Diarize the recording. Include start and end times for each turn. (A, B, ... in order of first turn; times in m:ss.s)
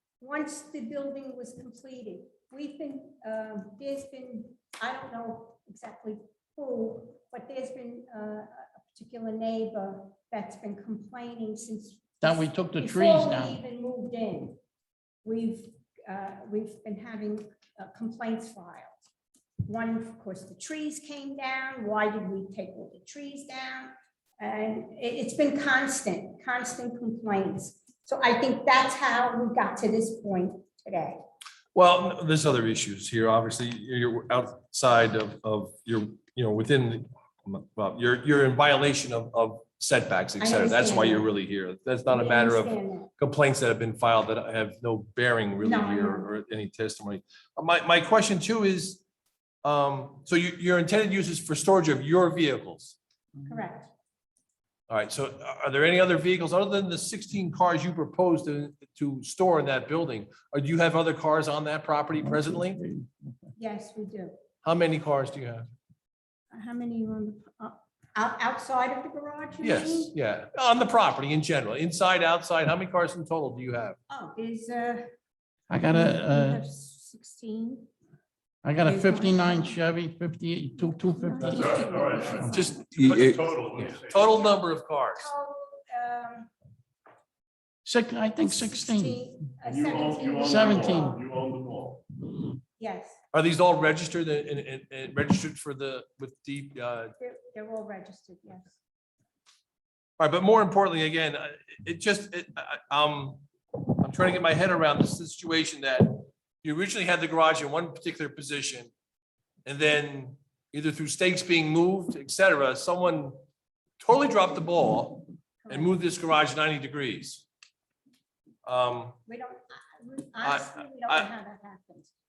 0:00.2-0:14.6 A
0:12.2-0:13.6 B
0:15.2-0:19.0 A
0:19.6-0:31.2 A
0:31.8-0:49.0 C
0:40.4-0:41.3 A
0:42.1-0:43.1 A
0:45.6-0:46.3 A
0:49.6-0:53.0 C
0:53.4-0:53.9 A
0:54.9-1:02.8 C
1:02.2-1:03.1 B
1:03.6-1:04.3 A
1:04.6-1:05.7 C
1:06.5-1:10.1 A
1:09.6-1:14.0 C
1:14.1-1:15.0 A
1:15.7-1:16.6 B
1:15.9-1:17.9 A
1:18.6-1:22.2 B
1:18.8-1:19.8 A
1:20.9-1:23.0 A
1:21.4-1:24.4 D
1:22.5-1:25.3 C
1:24.1-1:24.6 A
1:25.2-1:26.5 A
1:27.8-1:29.3 B
1:28.4-1:31.2 A
1:29.7-1:32.1 D
1:30.4-1:31.2 B
1:32.8-1:33.2 A
1:33.3-1:37.2 C
1:37.2-1:38.8 A
1:40.2-1:48.9 C
1:49.7-1:53.4 C
1:54.0-1:57.4 C
1:55.6-1:56.0 A
1:58.6-1:59.2 C
1:59.3-2:02.1 A
2:00.4-2:01.3 C